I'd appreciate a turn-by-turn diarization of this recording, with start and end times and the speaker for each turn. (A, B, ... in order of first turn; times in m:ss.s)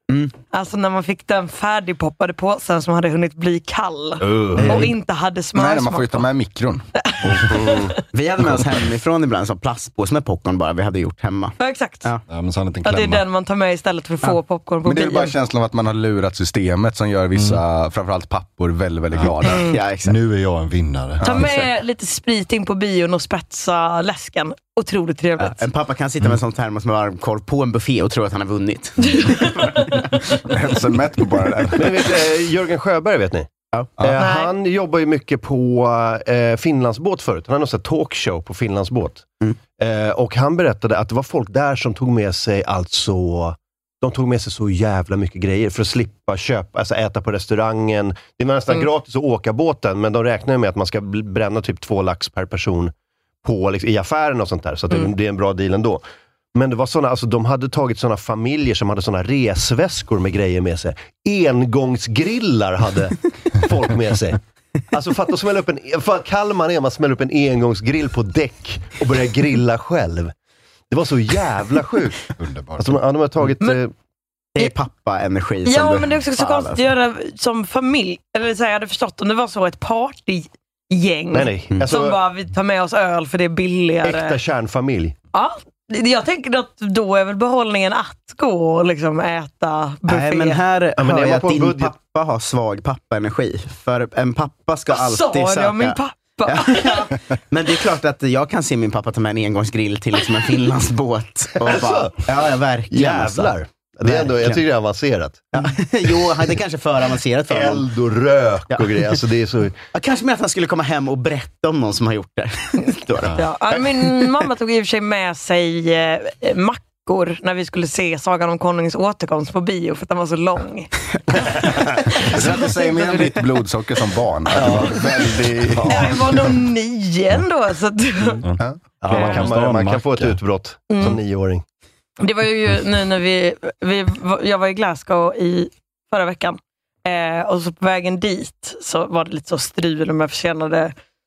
0:00.5-0:06.2 A
0:04.2-0:04.8 B
0:04.6-0:04.9 C
0:05.6-0:06.9 D
0:07.0-0:07.9 A
0:07.3-0:08.0 B
0:08.1-0:12.2 C
0:11.6-0:12.1 A
0:12.3-0:13.2 E
0:12.8-0:15.4 A
0:14.8-0:19.6 D
0:17.4-0:17.6 E
0:19.1-0:21.4 E
0:19.5-0:20.2 C
0:19.5-0:19.8 A
0:21.2-0:21.7 D
0:21.2-0:25.6 A
0:25.4-0:30.2 C
0:30.4-0:32.2 D
0:31.8-0:33.5 B
0:34.0-0:39.2 B
0:34.2-0:34.5 A
0:39.8-0:52.9 B
0:53.4-0:56.0 B
0:56.5-1:10.3 B
1:10.9-1:13.9 B
1:12.4-1:13.0 E
1:14.6-1:16.9 C
1:15.6-1:24.4 A
1:21.3-1:22.2 B
1:24.0-1:25.2 B
1:25.3-1:30.6 A
1:30.1-1:44.6 C
1:31.0-1:31.9 B
1:34.9-1:37.1 A
1:41.6-1:42.2 B
1:42.9-1:45.7 B
1:45.5-1:47.9 C
1:47.5-1:49.8 B
1:48.7-1:49.2 C
1:49.9-1:53.4 C
1:53.4-2:00.9 A
2:02.3-2:06.1 D
2:03.0-2:03.3 C
2:04.5-2:06.4 B
2:05.9-2:08.4 A
2:08.4-2:10.4 E
2:09.0-2:11.6 B
2:10.9-2:11.2 A
2:12.2-2:20.9 A